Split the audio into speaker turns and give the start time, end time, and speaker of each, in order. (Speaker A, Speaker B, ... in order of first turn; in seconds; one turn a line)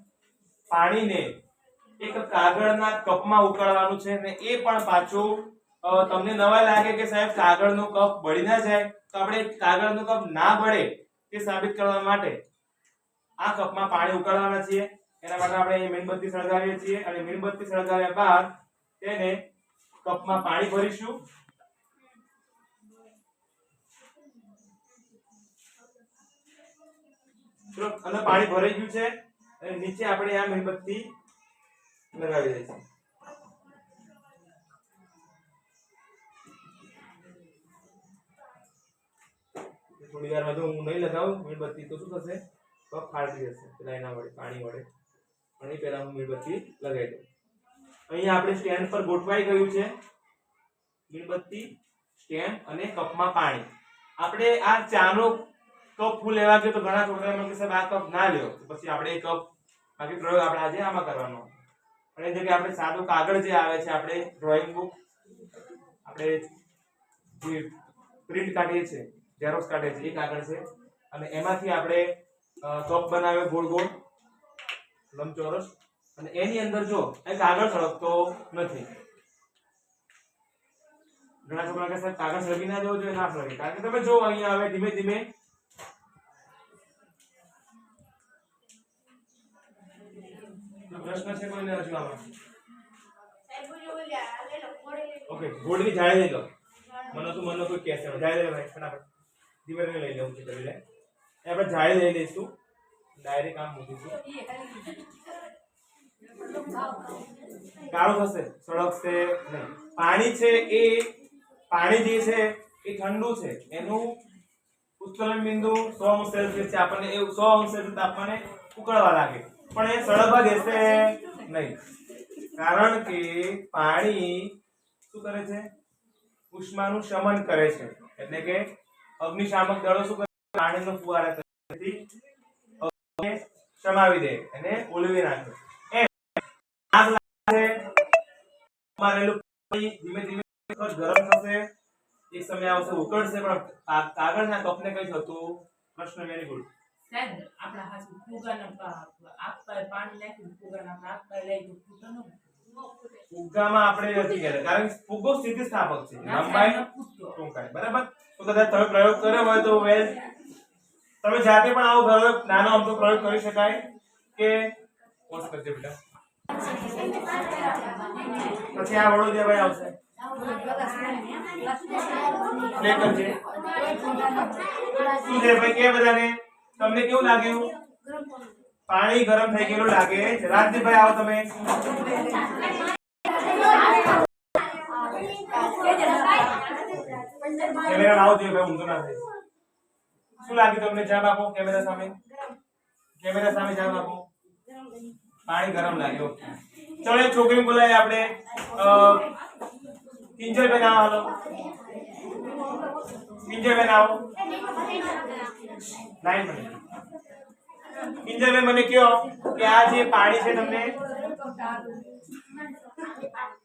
Speaker A: 0.7-1.3
Speaker A: 2.0-12.4
Speaker A: 13.4-19.4
Speaker A: 20.0-21.2
Speaker A: 27.7-31.1
Speaker A: 32.1-32.8
Speaker A: 40.0-44.9
Speaker A: 45.6-47.2
Speaker A: 48.1-49.9
Speaker A: 51.1-53.7
Speaker A: 54.2-55.5
Speaker A: 56.0-59.5
Speaker A: 60.0-61.5
Speaker A: 62.1-64.9
Speaker A: 66.0-66.5
Speaker A: 67.3-67.7
Speaker A: 68.3-72.0
Speaker A: 72.6-73.9
Speaker A: 75.1-78.9
Speaker A: 81.4-85.3
Speaker A: 90.9-92.2
Speaker B: 93.5-95.2
Speaker A: 95.3-96.5
Speaker A: 97.1-99.0
Speaker A: 99.6-100.8
Speaker A: 101.4-102.5
Speaker A: 103.2-104.2
Speaker B: 104.3-104.9
Speaker A: 107.9-111.1
Speaker A: 111.7-114.1
Speaker A: 115.0-121.8
Speaker A: 122.6-124.5
Speaker A: 125.1-125.7
Speaker A: 126.5-132.0
Speaker A: 132.8-136.3
Speaker A: 136.9-137.8
Speaker A: 139.0-141.7
Speaker A: 142.3-146.7
Speaker B: 147.1-152.4
Speaker A: 153.3-156.8
Speaker B: 156.2-157.3
Speaker A: 157.3-160.2
Speaker A: 161.2-163.8
Speaker A: 164.3-164.7
Speaker A: 165.3-166.0
Speaker B: 167.9-168.3
Speaker A: 168.7-169.9
Speaker B: 170.4-172.7
Speaker A: 172.7-173.4
Speaker B: 173.8-174.6
Speaker A: 175.2-177.7
Speaker A: 178.9-181.5
Speaker B: 185.2-186.7
Speaker A: 186.9-187.2
Speaker B: 187.3-187.8
Speaker A: 187.8-189.2
Speaker A: 190.4-192.2
Speaker A: 193.2-194.2
Speaker A: 195.4-196.4
Speaker A: 197.0-199.2
Speaker A: 200.4-201.3
Speaker A: 203.4-204.2
Speaker A: 206.2-206.7
Speaker A: 208.2-211.0
Speaker B: 211.1-212.2